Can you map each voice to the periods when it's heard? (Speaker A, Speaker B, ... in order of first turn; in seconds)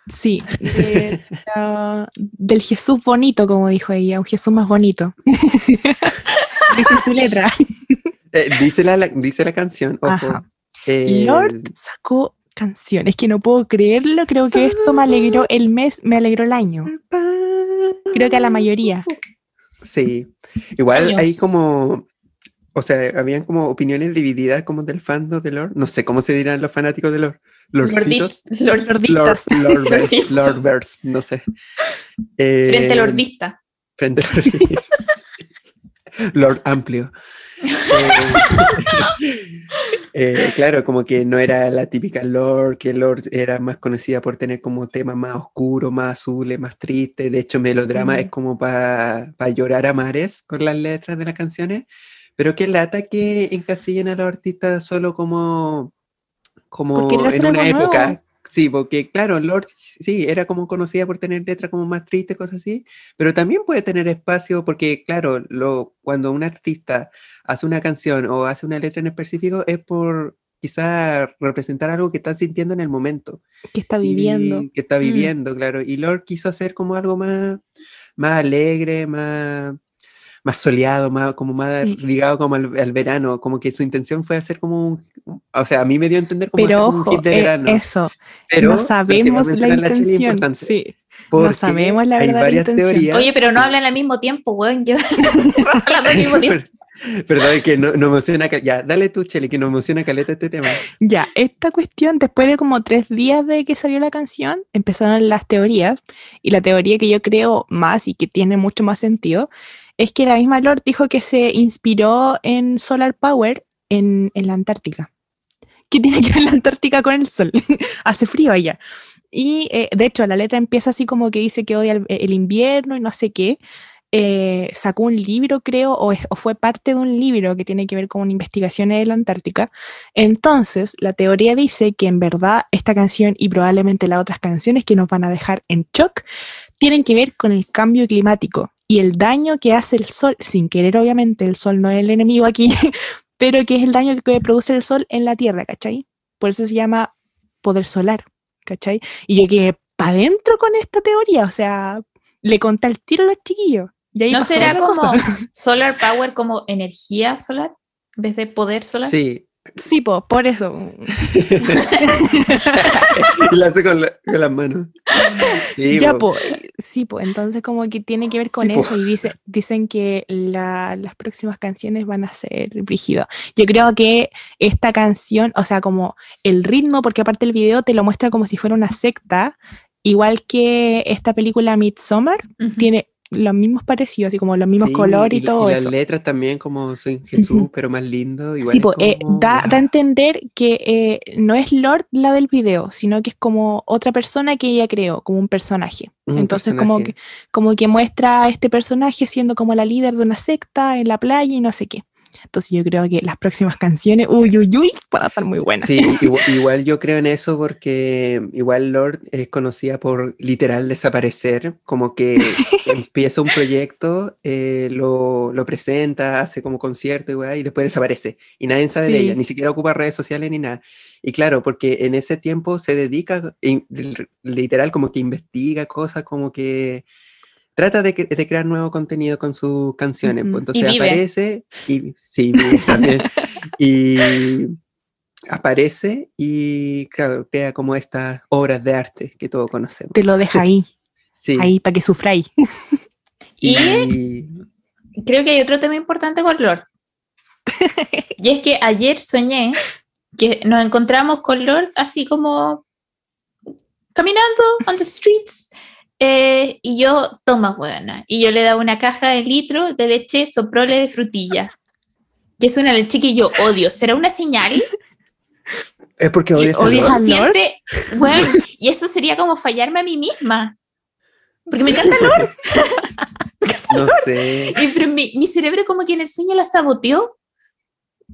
Speaker A: 0.1-8.1, 10.1-10.4, 11.0-16.9, 18.1-19.1, 28.7-29.9, 47.9-48.3, 56.9-58.2, 73.7-75.3, 86.6-93.1, 101.0-115.1, 115.9-118.8, 119.3-123.6, 124.1-136.2, 136.8-155.3, 159.8-163.1, 165.4-185.9, 187.4-187.7, 188.7-206.4, 218.9-219.4, 230.2-230.6, 232.6-233.5, 240.1-240.9, 241.6-242.9, 247.7-248.2, 266.6-267.6
Speaker B: 0.6-1.2, 8.3-11.7, 14.4-15.4, 16.9-18.6, 19.8-22.1, 22.7-28.5, 29.0-31.4, 32.4-33.2, 34.0-34.8, 36.3-37.1, 37.8-39.6, 40.1-51.9, 52.4-55.9, 56.7-73.4, 74.0-77.6, 78.2-79.8, 80.4-87.8, 88.5-90.7, 91.3-93.7, 96.1-100.8, 159.0-159.5, 161.3-161.8, 162.7-166.3, 168.5-169.1, 184.8-189.8, 196.3-197.1, 205.8-227.1, 227.8-234.7, 235.5-240.6, 241.4-241.7, 243.6-244.5, 266.2-267.2, 273.9-274.8
Speaker C: 6.3-7.0, 20.9-21.6, 27.8-28.9, 29.9-30.6, 32.7-33.6, 37.7-39.1, 93.1-96.6, 154.3-159.1, 165.2-165.6, 182.6-182.9, 230.7-231.2, 243.6-244.1, 245.2-246.8, 248.4-249.8, 250.3-252.8, 254.1-261.7, 262.6-264.9, 266.6-270.8, 271.7-273.1, 273.7-274.2, 274.7-277.3